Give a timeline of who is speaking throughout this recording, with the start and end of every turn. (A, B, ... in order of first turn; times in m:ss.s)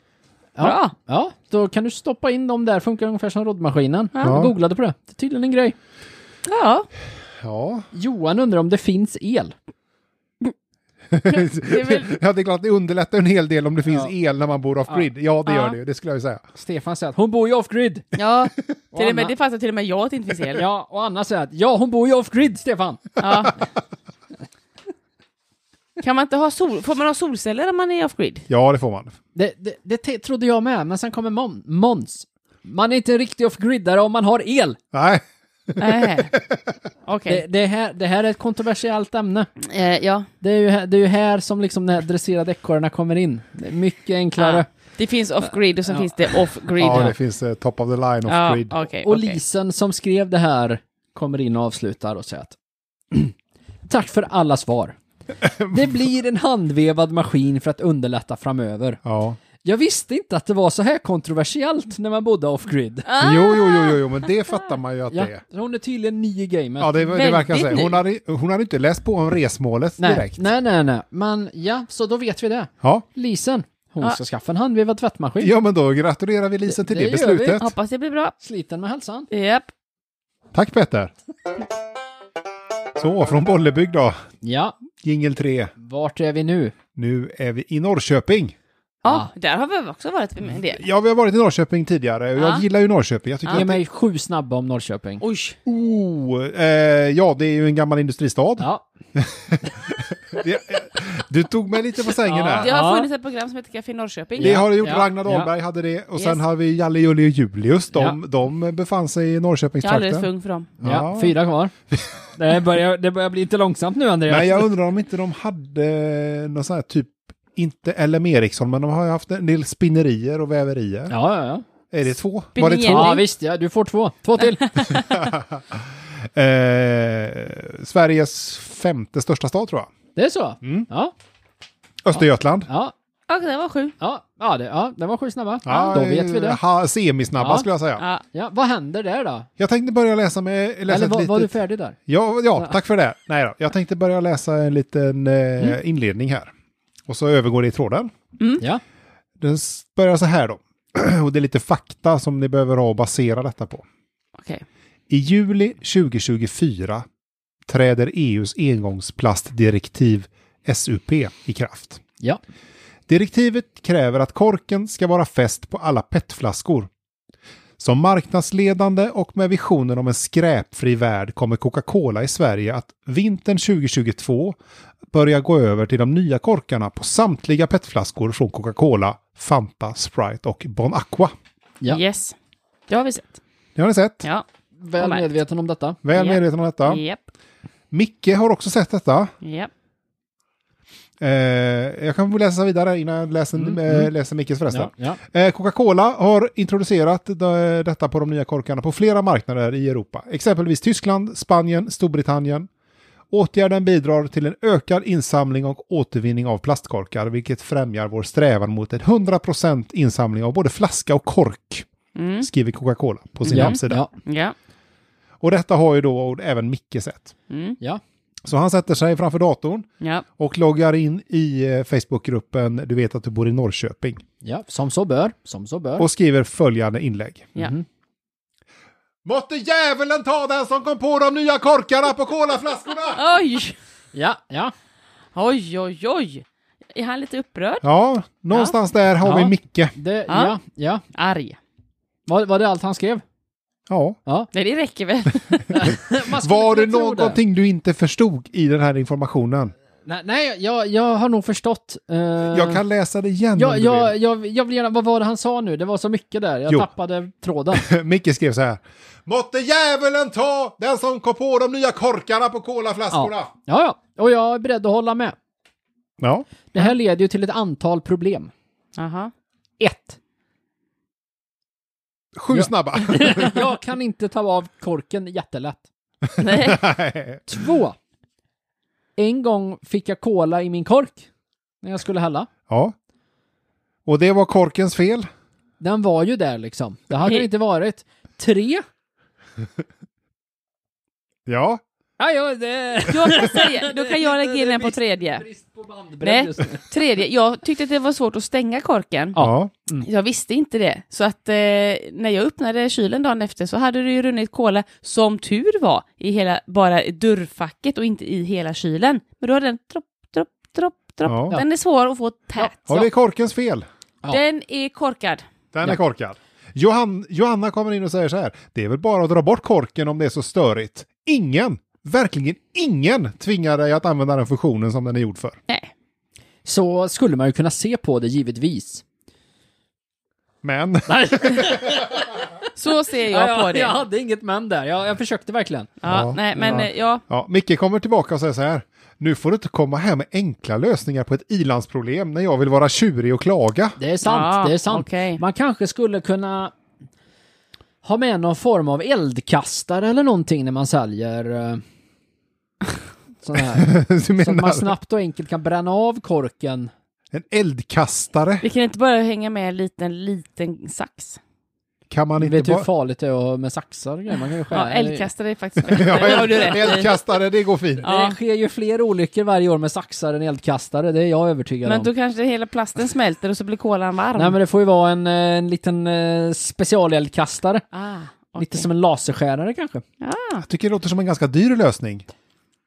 0:00.6-0:05.8 A
0:00.6-0:00.9 B
0:04.2-0:04.5 C
0:06.4-0:06.9 B
0:07.4-0:07.9 C
0:07.9-0:09.5 A
0:11.1-0:16.4 C
0:11.3-0:12.1 B
0:13.9-0:14.1 A
0:15.5-0:15.8 B
0:16.6-0:18.1 A
0:18.1-0:20.6 B
0:18.9-0:19.3 A
0:20.6-0:23.2 A
0:23.2-0:23.6 B
0:26.0-0:28.5 B
0:28.5-0:29.2 C
0:29.4-0:34.8 A
0:34.9-0:36.6 C
0:35.8-0:36.3 B
0:37.1-0:37.4 B
0:37.3-0:39.5 A
0:39.6-0:40.3 B
0:40.4-0:44.7 A
0:44.4-0:47.2 B
0:46.8-0:48.8 C
0:48.3-0:49.4 B
0:49.0-0:52.6 A
0:53.9-0:55.0 A
0:55.4-0:56.0 C
0:55.7-0:59.0 A
0:59.0-0:59.4 C
0:59.6-1:03.1 A
1:03.1-1:04.7 B
1:03.2-1:05.4 C
1:05.1-1:07.0 A
1:06.8-1:10.5 C
1:07.1-1:08.0 B
1:10.0-1:15.5 A
1:15.4-1:17.7 C
1:16.7-1:17.6 A
1:17.6-1:18.3 B
1:18.4-1:19.3 A
1:19.3-1:19.7 B
1:20.5-1:21.1 C
1:23.0-1:24.2 C
1:24.4-1:24.8 A
1:25.0-1:25.7 C
1:25.8-1:26.8 A
1:27.0-1:28.6 C
1:29.0-1:30.8 B
1:30.7-1:33.8 C
1:32.4-1:32.6 B
1:33.5-1:35.2 A
1:35.2-1:35.6 B
1:35.7-1:42.7 C
1:38.6-1:38.8 A
1:42.3-1:44.7 B
1:42.3-1:43.1 A
1:44.4-1:45.5 A
1:44.4-1:50.3 C
1:46.2-1:46.4 B
1:47.9-1:48.2 A
1:49.8-1:50.7 B
1:50.8-1:51.3 C
1:50.8-1:51.7 A
1:52.4-1:54.7 A
1:54.3-2:01.2 C
2:01.1-2:01.7 A
2:01.9-2:03.2 C
2:02.6-2:03.2 B
2:02.9-2:05.0 A
2:04.8-2:05.1 B
2:04.9-2:09.9 C
2:10.2-2:11.1 A
2:10.6-2:10.9 C
2:12.0-2:12.7 C
2:12.7-2:12.9 A
2:13.3-2:14.0 B
2:14.0-2:16.6 A
2:15.6-2:18.0 C
2:15.7-2:16.0 B
2:17.4-2:17.7 A
2:18.3-2:19.5 A
2:19.6-2:21.6 C
2:20.9-2:22.0 A
2:22.1-2:26.5 C
2:27.1-2:28.1 C
2:29.4-2:33.8 C
2:34.4-2:34.6 B
2:35.1-2:37.0 C
2:37.7-2:42.0 C
2:43.1-2:46.9 C
2:47.8-2:54.6 C
2:55.1-3:01.3 C
3:01.9-3:02.4 B
3:02.9-3:03.4 B
3:03.8-3:04.3 C
3:04.8-3:06.0 A
3:05.0-3:05.3 B
3:06.0-3:07.0 C
3:06.2-3:07.3 B
3:07.9-3:09.3 C
3:09.4-3:09.7 B
3:11.2-3:22.7 C
3:13.6-3:14.1 A
3:14.7-3:15.2 A
3:23.3-3:31.9 C
3:32.2-3:32.5 B
3:32.4-3:34.1 C
3:33.5-3:34.1 A
3:33.5-3:34.6 B
3:35.4-3:37.3 C
3:37.5-3:37.8 B
3:38.4-3:44.2 C
3:44.4-3:46.1 A
3:46.0-3:47.5 C
3:47.6-3:47.8 A
3:49.2-3:53.2 C
3:53.2-3:53.8 B
3:54.1-3:54.7 A
3:55.3-3:57.8 B
3:57.8-3:59.9 C
3:59.2-4:01.0 A
4:00.3-4:00.6 B
4:01.1-4:01.6 B
4:02.3-4:03.2 A
4:03.9-4:04.2 C
4:04.5-4:05.8 B
4:05.7-4:09.7 C
4:05.7-4:07.4 A
4:10.1-4:12.8 A
4:12.5-4:14.1 C
4:13.6-4:17.8 A
4:17.7-4:23.5 C
4:23.1-4:25.4 A
4:26.2-4:26.5 C
4:26.7-4:28.5 A
4:29.0-4:29.3 B
4:29.8-4:30.2 A
4:32.4-4:33.6 C
4:32.5-4:35.9 A
4:36.3-4:37.5 C
4:36.4-4:36.8 B
4:37.5-4:38.0 A
4:39.2-4:41.3 A
4:41.8-4:42.5 A
4:42.7-4:42.9 C
4:44.1-4:45.3 C
4:45.8-4:48.8 A
4:51.5-4:51.8 C
4:52.2-4:56.9 A
4:53.1-4:55.4 B
4:56.2-4:59.4 B
4:59.4-5:00.1 A
4:59.4-4:59.7 C
5:00.0-5:13.1 B
5:11.3-5:11.6 C
5:12.9-5:13.8 C
5:14.3-5:15.4 B
5:15.7-5:25.6 C
5:26.6-5:29.0 A
5:30.6-5:32.2 C
5:31.1-5:32.4 A
5:32.8-5:34.0 B
5:33.3-5:35.9 A
5:36.0-5:37.2 B
5:36.1-5:44.0 C
5:36.6-5:36.9 A
5:44.0-5:46.7 A
5:44.2-5:45.4 B
5:48.0-5:51.8 A
5:53.4-5:56.9 A
5:53.6-5:54.9 C
5:57.3-5:58.6 C
5:58.6-6:01.4 B
6:02.1-6:02.9 C
6:02.4-6:05.3 A
6:04.7-6:07.1 B
6:05.8-6:08.1 C
6:06.0-6:07.1 A
6:08.0-6:12.1 A
6:08.0-6:08.4 B
6:11.9-6:14.6 B
6:14.4-6:17.8 A
6:17.9-6:18.9 B
6:18.6-6:20.0 A
6:20.2-6:20.6 B
6:20.6-6:22.3 C